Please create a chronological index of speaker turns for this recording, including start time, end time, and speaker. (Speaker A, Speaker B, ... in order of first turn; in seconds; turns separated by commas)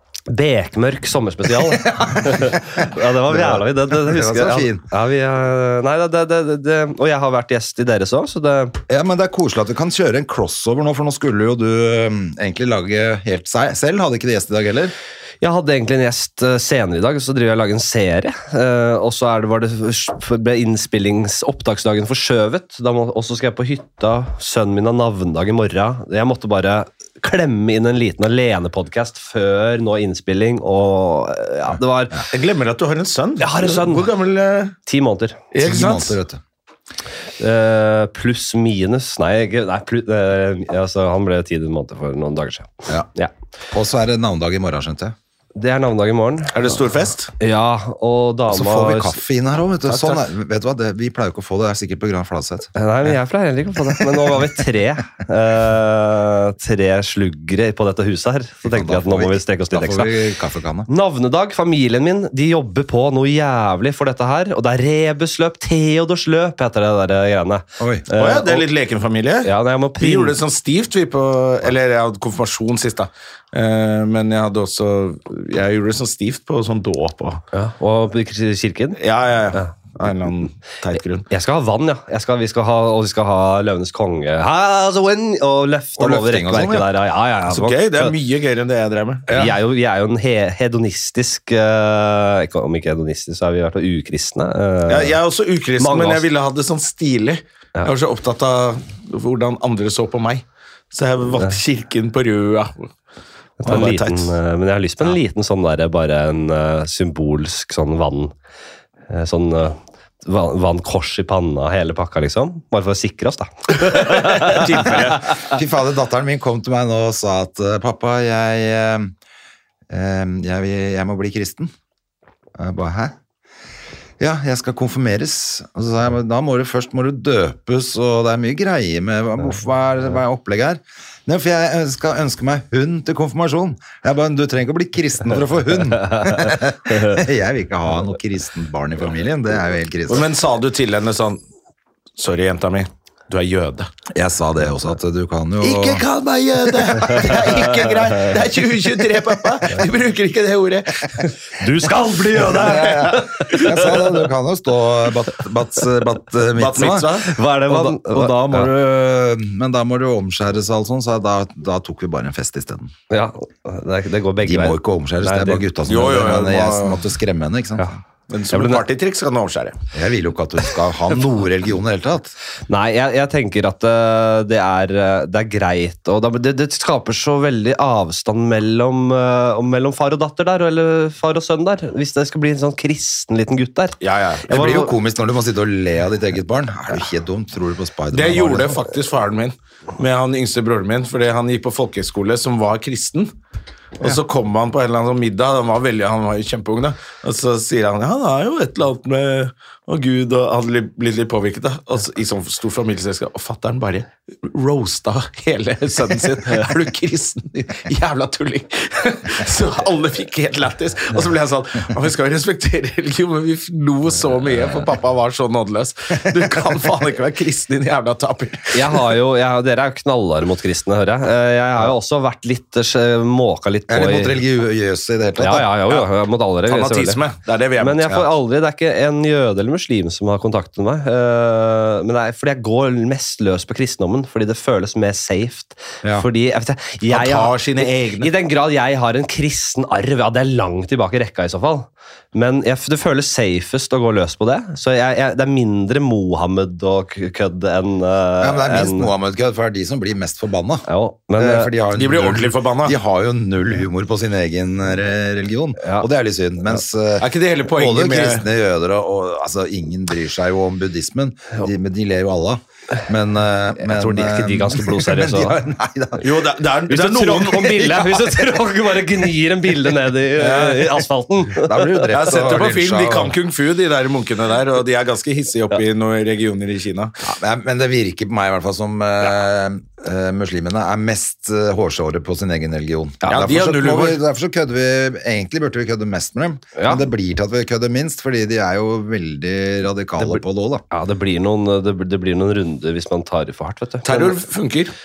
Speaker A: 0.3-8.8, Speaker B: 1.5-4.8, Speaker B: 8.9-14.9, Speaker A: 15.4-32.3, Speaker C: 32.3-34.8, Speaker A: 33.4-34.1, Speaker A: 34.9-35.4, Speaker C: 35.5-36.2, Speaker B: 35.6-36.4, Speaker A: 37.4-43.3, Speaker B: 43.7-45.1, Speaker A: 45.5-46.6, Speaker C: 46.5-47.3, Speaker A: 47.4-49.2, Speaker B: 48.5-52.7, Speaker A: 52.7-60.1, Speaker B: 58.7-60.9, Speaker A: 60.9-68.7, Speaker B: 67.8-68.1, Speaker C: 68.1-77.4, Speaker A: 69.4-70.3, Speaker A: 77.5-79.0, Speaker C: 79.0-81.3, Speaker A: 81.3-88.1, Speaker B: 86.0-86.8, Speaker C: 87.5-89.3, Speaker B: 89.3-89.5, Speaker A: 89.3-95.2, Speaker C: 94.9-102.9, Speaker A: 95.8-96.2, Speaker A: 103.6-108.3, Speaker C: 103.6-104.3, Speaker A: 109.1-115.3, Speaker C: 113.8-115.3, Speaker B: 114.9-119.1, Speaker B: 119.9-121.7, Speaker B: 122.6-123.1, Speaker B: 124.2-140.2, Speaker C: 140.1-141.4, Speaker C: 142.2-143.9, Speaker B: 144.1-146.0, Speaker C: 145.6-151.3, Speaker B: 147.0-147.6, Speaker A: 151.6-154.2, Speaker B: 152.4-162.9, Speaker C: 156.6-157.3, Speaker A: 157.2-158.7, Speaker A: 163.1-165.6, Speaker B: 164.4-168.0, Speaker C: 165.8-167.0, Speaker C: 168.3-169.8, Speaker A: 168.5-168.8, Speaker B: 169.9-172.3, Speaker A: 172.7-184.0, Speaker C: 184.0-184.5, Speaker B: 184.5-188.8, Speaker A: 184.5-184.9, Speaker C: 188.1-193.3, Speaker C: 194.0-219.1, Speaker A: 218.7-224.4, Speaker B: 223.9-226.0, Speaker A: 225.4-227.2, Speaker C: 226.7-228.1, Speaker A: 227.8-237.6, Speaker C: 237.1-238.3, Speaker A: 238.2-249.1, Speaker B: 248.4-266.3, Speaker A: 250.9-251.7, Speaker C: 251.9-252.9, Speaker A: 255.8-256.1, Speaker C: 257.2-258.4, Speaker A: 263.8-265.6, Speaker C: 266.2-268.1, Speaker A: 266.9-272.1, Speaker C: 270.4-271.0, Speaker B: 271.5-273.3, Speaker C: 272.1-277.1, Speaker B: 277.2-290.8, Speaker C: 283.2-284.2, Speaker A: 286.8-287.0, Speaker A: 290.2-294.4, Speaker C: 294.0-294.9